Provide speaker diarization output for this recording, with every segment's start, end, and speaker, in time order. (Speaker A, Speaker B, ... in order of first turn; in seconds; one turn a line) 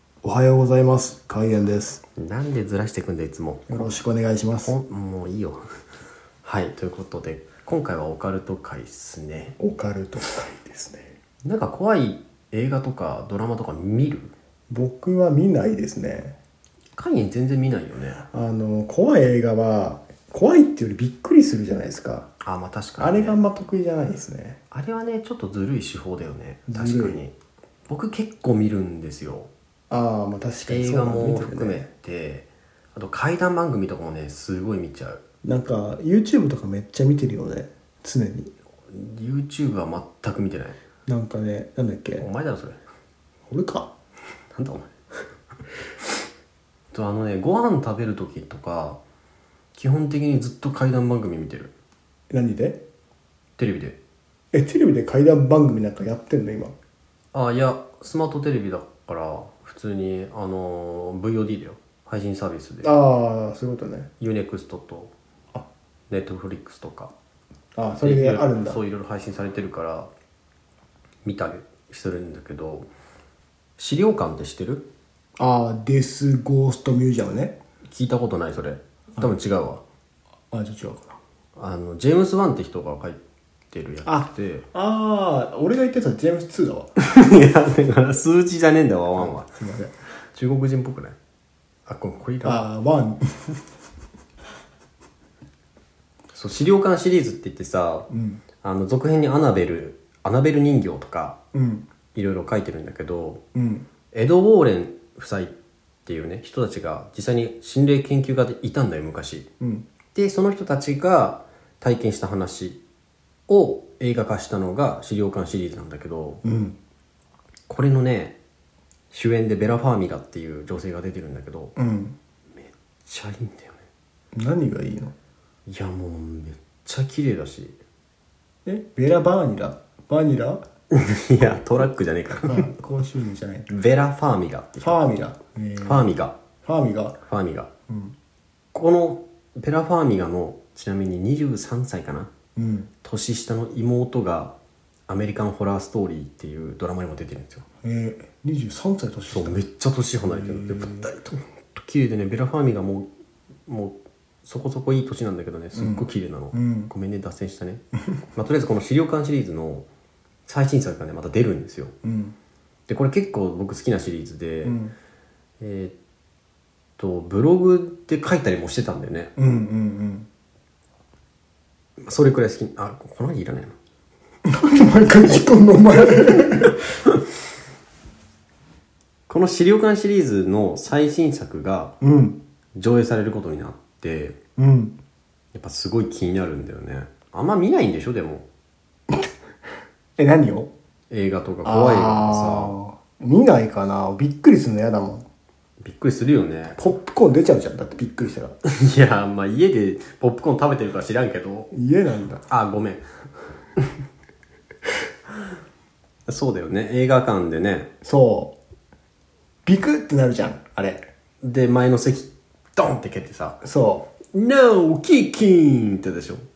Speaker A: 0.2-2.0
Speaker B: 2.1-4.0
Speaker A: 3.7-4.8
Speaker B: 4.6-5.7
Speaker B: 6.4-9.6
Speaker A: 9.6-11.1
Speaker B: 11.4-14.3
Speaker A: 14.7-16.4
Speaker B: 16.9-18.2
Speaker A: 18.3-22.3
Speaker B: 22.4-23.4
Speaker A: 23.0-24.6
Speaker B: 24.7-27.4
Speaker A: 26.7-27.2
Speaker B: 27.9-29.5
Speaker A: 29.9-31.9
Speaker B: 30.6-35.2
Speaker A: 35.4-38.5
Speaker B: 38.9-40.8
Speaker A: 41.1-42.3
Speaker B: 42.2-42.8
Speaker A: 43.5-43.9
Speaker B: 44.5-44.9
Speaker B: 46.9-49.0
Speaker B: 49.7-51.7
Speaker A: 52.3-52.8
Speaker B: 53.6-54.0
Speaker A: 54.5-56.7
Speaker B: 57.3-62.9
Speaker A: 62.8-64.1
Speaker B: 64.2-65.1
Speaker B: 66.1-67.1
Speaker A: 67.8-68.8
Speaker B: 68.0-70.1
Speaker B: 71.2-72.9
Speaker B: 73.8-74.9
Speaker A: 75.4-77.5
Speaker B: 77.8-79.8
Speaker A: 80.5-81.2
Speaker B: 81.5-84.7
Speaker A: 84.0-86.9
Speaker B: 87.0-89.5
Speaker A: 89.2-89.9
Speaker B: 90.3-91.2
Speaker B: 91.8-92.7
Speaker A: 92.4-93.5
Speaker B: 96.3-98.1
Speaker A: 98.1-98.4
Speaker B: 98.6-101.4
Speaker A: 101.5-101.9
Speaker B: 102.1-103.4
Speaker A: 103.5-103.9
Speaker B: 104.1-109.5
Speaker A: 109.6-109.9
Speaker B: 110.1-112.8
Speaker B: 113.5-116.4
Speaker A: 116.4-116.8
Speaker B: 117.7-118.4
Speaker B: 119.1-121.7
Speaker A: 121.8-122.2
Speaker B: 122.5-123.9
Speaker A: 124.3-125.1
Speaker B: 125.7-127.8
Speaker A: 128.6-130.6
Speaker B: 130.9-132.8
Speaker A: 132.4-133.7
Speaker B: 133.7-135.0
Speaker A: 134.8-136.1
Speaker B: 135.8-136.3
Speaker A: 136.6-137.2
Speaker B: 137.2-137.7
Speaker A: 137.9-138.1
Speaker B: 138.7-142.3
Speaker A: 142.6-142.9
Speaker B: 143.0-144.5
Speaker B: 145.1-147.6
Speaker A: 147.8-149.6
Speaker B: 149.3-153.1
Speaker A: 150.2-151.1
Speaker B: 153.7-157.8
Speaker A: 155.7-156.9
Speaker B: 158.3-159.9
Speaker B: 160.4-161.9
Speaker A: 162.0-162.3
Speaker B: 162.9-164.8
Speaker A: 164.6-164.9
Speaker B: 165.6-165.9
Speaker B: 167.0-169.5
Speaker A: 169.4-170.3
Speaker B: 172.0-173.8
Speaker A: 174.4-176.8
Speaker B: 175.9-177.2
Speaker B: 179.3-181.9
Speaker A: 182.0-182.4
Speaker B: 182.8-184.4
Speaker A: 184.6-184.9
Speaker B: 185.5-188.5
Speaker A: 190.2-190.7
Speaker B: 191.1-192.7
Speaker A: 191.6-195.3
Speaker B: 195.8-196.8
Speaker A: 196.8-198.6
Speaker B: 198.8-201.7
Speaker A: 201.7-202.4
Speaker B: 202.5-203.0
Speaker B: 206.3-207.9
Speaker A: 208.0-208.6
Speaker A: 209.7-211.0
Speaker B: 211.4-213.6
Speaker A: 213.6-214.1
Speaker B: 214.3-216.4